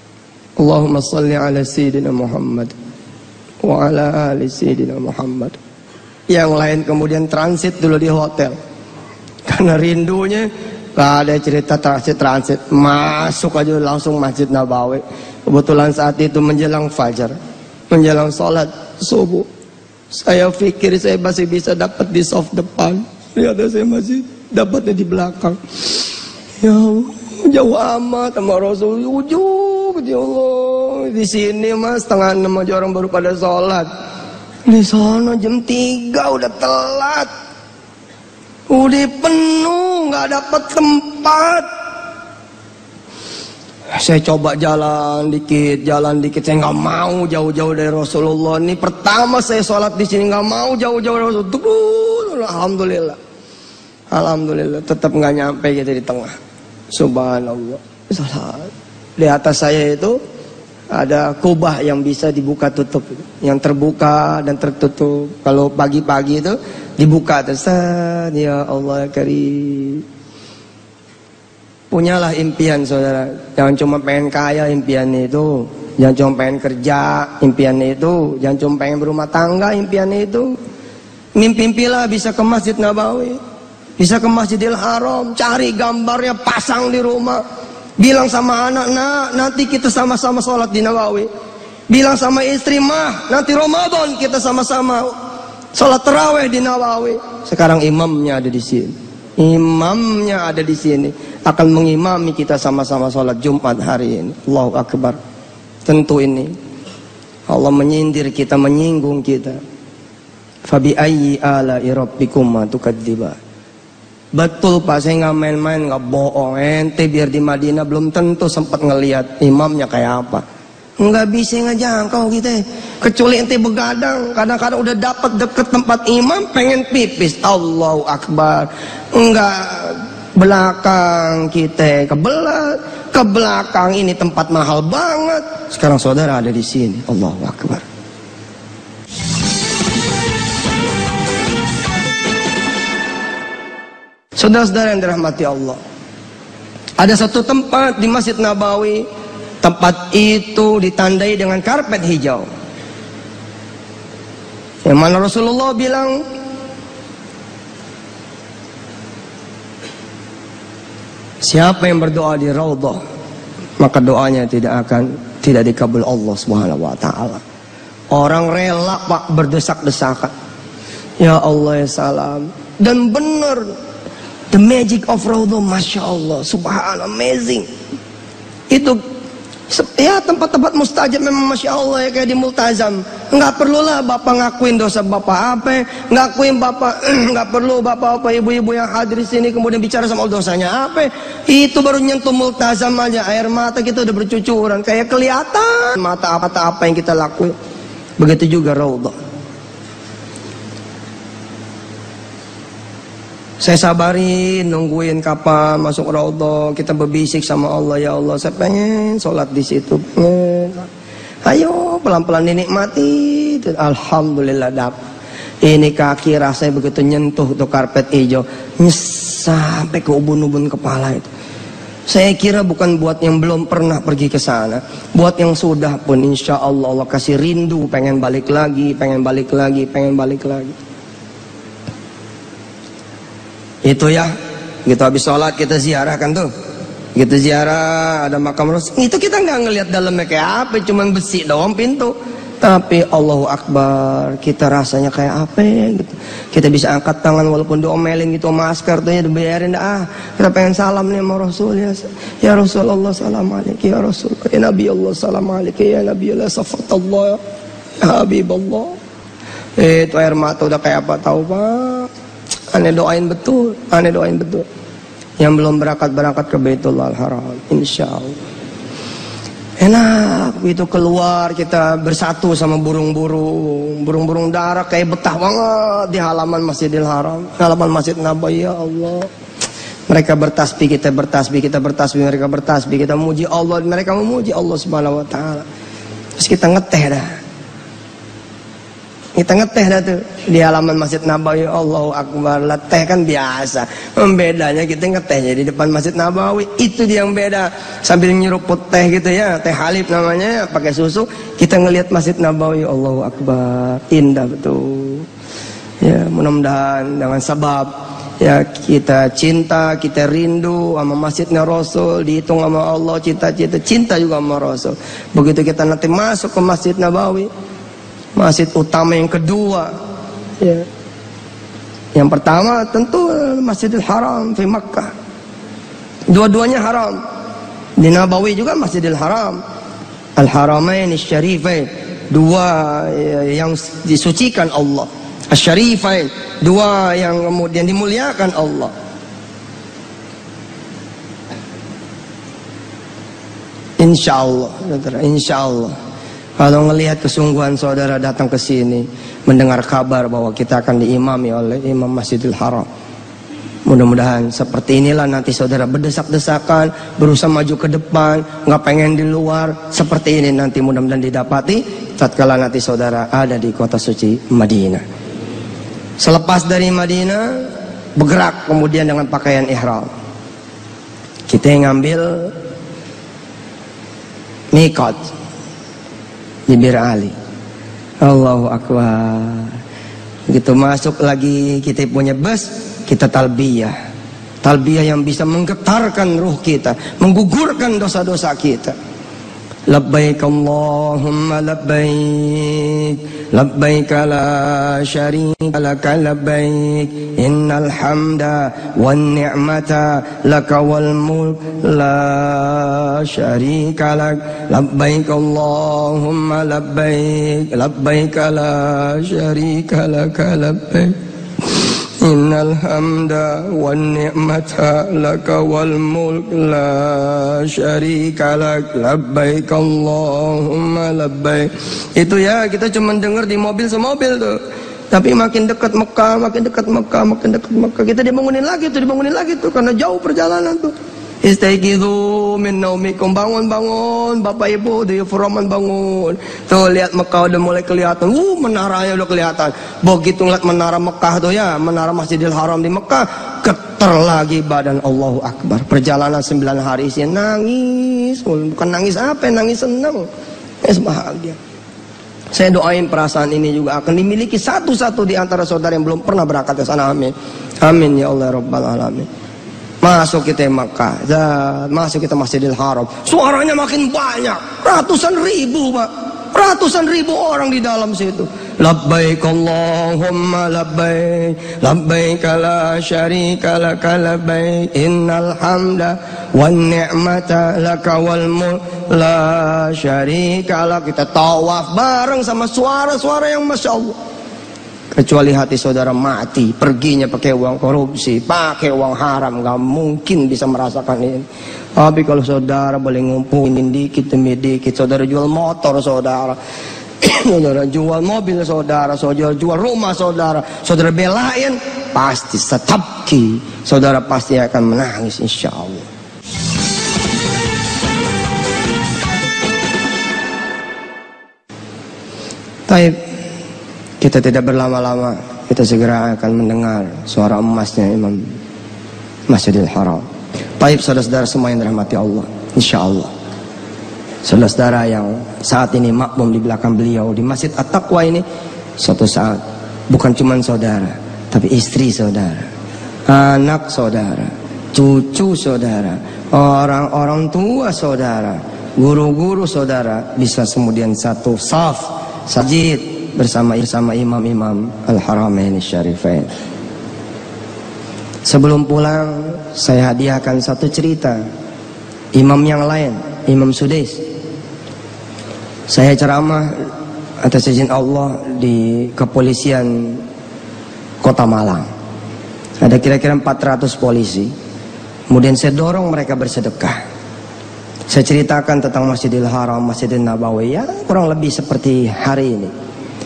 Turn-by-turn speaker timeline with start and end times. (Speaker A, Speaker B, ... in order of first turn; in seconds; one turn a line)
Speaker A: 0.6-2.8
Speaker A: 3.6-5.6
Speaker A: 6.3-8.6
Speaker A: 9.5-17.4
Speaker A: 17.9-19.5
Speaker A: 20.1-26.0
Speaker A: 26.6-33.9
Speaker A: 34.6-37.3
Speaker A: 38.7-41.7
Speaker A: 43.9-53.2
Speaker A: 54.1-56.4
Speaker A: 56.9-60.2
Speaker A: 60.9-70.0
Speaker A: 71.9-80.5
Speaker A: 81.4-83.4
Speaker A: 84.0-87.4
Speaker A: 88.0-91.3
Speaker A: 91.9-95.1
Speaker A: 95.7-105.2
Speaker A: 105.8-106.5
Speaker A: 107.5-109.6
Speaker A: 110.7-113.4
Speaker A: 114.3-120.4
Speaker A: 121.0-137.8
Speaker A: 144.4-145.8
Speaker A: 147.0-149.1
Speaker A: 149.6-152.5
Speaker A: 154.8-156.2
Speaker A: 161.4-163.0
Speaker A: 163.8-167.4
Speaker A: 168.1-170.3
Speaker A: 171.2-173.7
Speaker A: 174.5-177.7
Speaker A: 178.7-179.0
Speaker A: 179.7-197.5
Speaker A: 198.2-199.2
Speaker A: 203.6-210.9
Speaker A: 211.4-215.0
Speaker A: 215.6-221.3
Speaker A: 222.1-230.8
Speaker A: 233.8-234.3
Speaker A: 234.9-236.5
Speaker A: 237.2-257.4
Speaker A: 258.0-259.0
Speaker A: 259.8-262.1
Speaker A: 262.7-264.7
Speaker A: 265.4-268.4
Speaker A: 269.8-279.3
Speaker A: 280.1-285.6
Speaker A: 286.4-287.3
Speaker A: 289.4-305.3
Speaker A: 306.0-317.5
Speaker A: 318.4-319.9
Speaker A: 320.6-320.9
Speaker A: 322.1-325.1
Speaker A: 326.3-327.2
Speaker A: 328.0-329.6
Speaker A: 330.4-338.9
Speaker A: 344.0-345.9
Speaker A: 346.6-352.9
Speaker A: 353.9-365.0
Speaker A: 366.2-367.6
Speaker A: 368.2-370.1
Speaker A: 371.5-372.5
Speaker A: 374.7-375.3
Speaker A: 376.7-377.3
Speaker A: 378.2-379.8
Speaker A: 380.5-383.9
Speaker A: 384.6-388.9
Speaker A: 389.9-424.6
Speaker A: 425.1-450.3
Speaker A: 450.8-451.6
Speaker A: 452.5-459.3
Speaker A: 460.0-484.2
Speaker A: 485.1-491.5
Speaker A: 492.0-496.6
Speaker A: 497.2-506.1
Speaker A: 512.9-513.2
Speaker A: 514.2-518.5
Speaker A: 519.5-520.2
Speaker A: 520.8-523.3
Speaker A: 524.4-528.4
Speaker A: 529.0-532.7
Speaker A: 533.3-546.5
Speaker A: 548.5-551.4
Speaker A: 552.3-554.2
Speaker A: 555.9-556.7
Speaker A: 557.4-560.2
Speaker A: 561.2-561.9
Speaker A: 562.8-564.5
Speaker A: 565.3-567.0
Speaker A: 568.1-572.7